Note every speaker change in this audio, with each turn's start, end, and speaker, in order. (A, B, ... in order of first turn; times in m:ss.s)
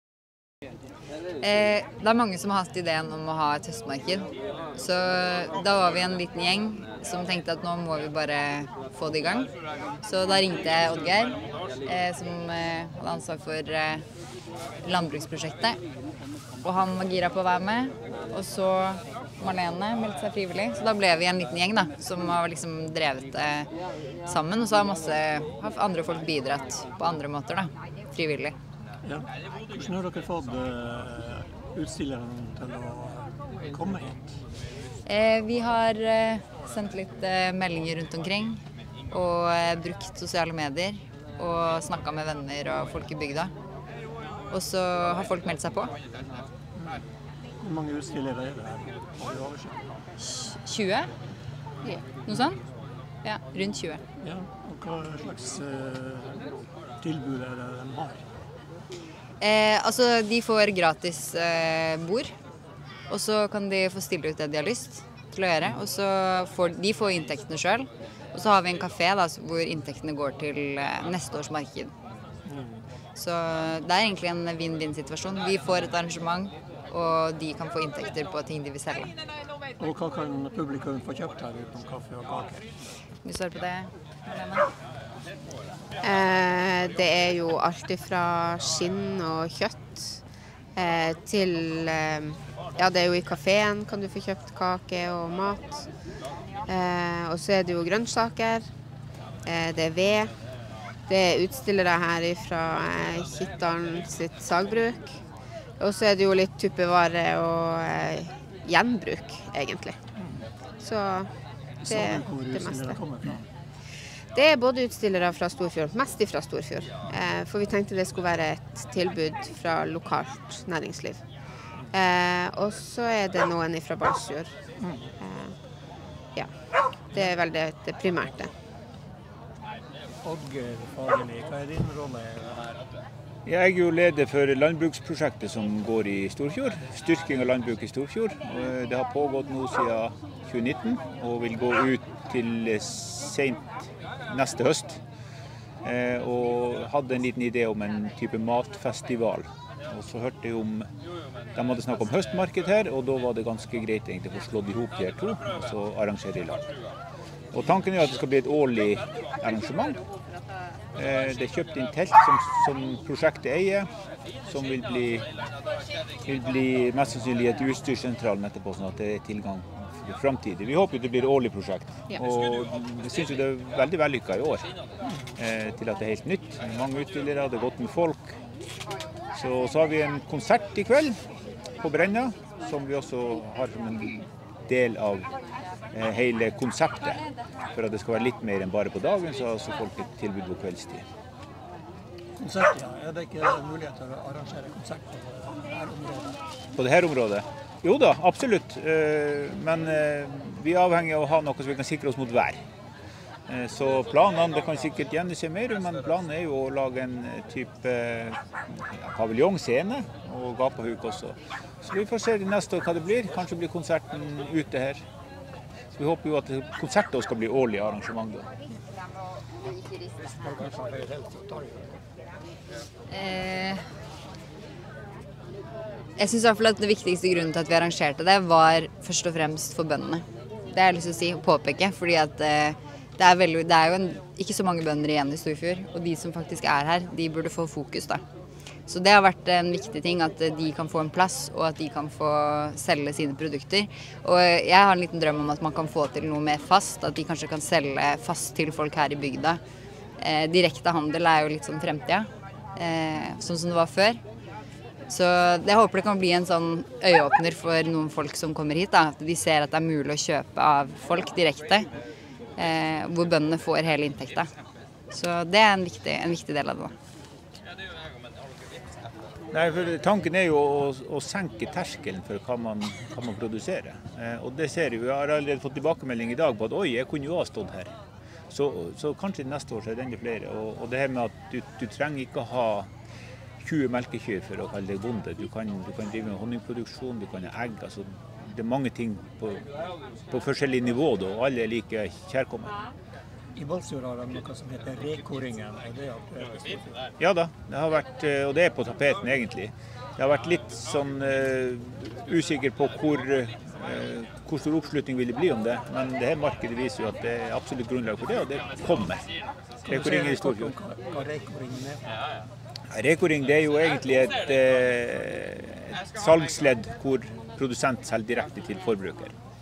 0:01.4-0:09.5 A
0:10.0-0:14.0 A
0:14.8-0:15.8 A
0:16.6-0:23.7 A
0:24.3-0:28.6 A
0:29.0-0:34.4 B
0:35.0-0:43.5 A
0:44.5-0:45.9 A
0:47.6-0:50.0 B
0:50.2-0:51.1 A
0:52.3-0:52.6 A
0:53.2-0:54.0 A
0:54.2-0:56.5 B
0:57.0-0:58.2 B
0:59.4-1:02.3 A
1:03.1-1:11.9 A
1:12.4-1:12.9 B
1:13.2-1:19.1 A
1:19.8-1:22.7 B
1:23.2-1:24.7 A
1:26.0-1:30.2 C
1:30.8-1:35.9 C
1:36.7-1:38.6 C
1:39.4-1:40.3 C
1:41.1-1:45.2 C
1:45.8-1:50.0 C
1:50.2-1:50.4 B
1:50.8-1:51.3 C
1:51.8-1:53.0 C
1:51.8-1:53.5 B
1:54.3-2:01.2 C
2:01.9-2:04.5 C
2:04.8-2:05.1 B
2:05.2-2:05.5 C
2:07.1-2:08.5 C
2:10.2-2:12.8 B
2:13.4-2:25.0 D
2:25.8-2:30.9 D
2:31.5-2:36.6 D
2:37.5-2:40.0 D
2:40.9-2:43.9 D
2:44.5-2:45.2 D
2:46.2-2:54.7 D
2:55.3-2:58.4 D
2:59.3-3:01.2 D
3:01.8-3:05.3 D
3:05.9-3:11.0 D
3:12.4-3:16.4 B
3:16.8-3:22.6 D
3:23.5-3:35.0 D
3:35.9-3:38.5 D
3:40.3-3:42.0 B
3:43.1-3:43.8 A
3:46.2-3:58.2 A
3:58.9-4:09.6 A
4:10.2-4:14.2 A
4:15.1-4:21.9 A
4:22.6-4:24.5 A
4:25.1-4:26.9 A
4:29.5-4:37.9 D
4:38.5-4:42.9 D
4:43.6-4:49.6 D
4:50.3-4:52.8 D
4:53.6-4:57.0 B
4:57.2-5:09.2 D
5:09.8-5:12.0 B
5:09.9-5:10.7 D
5:12.9-5:19.3 D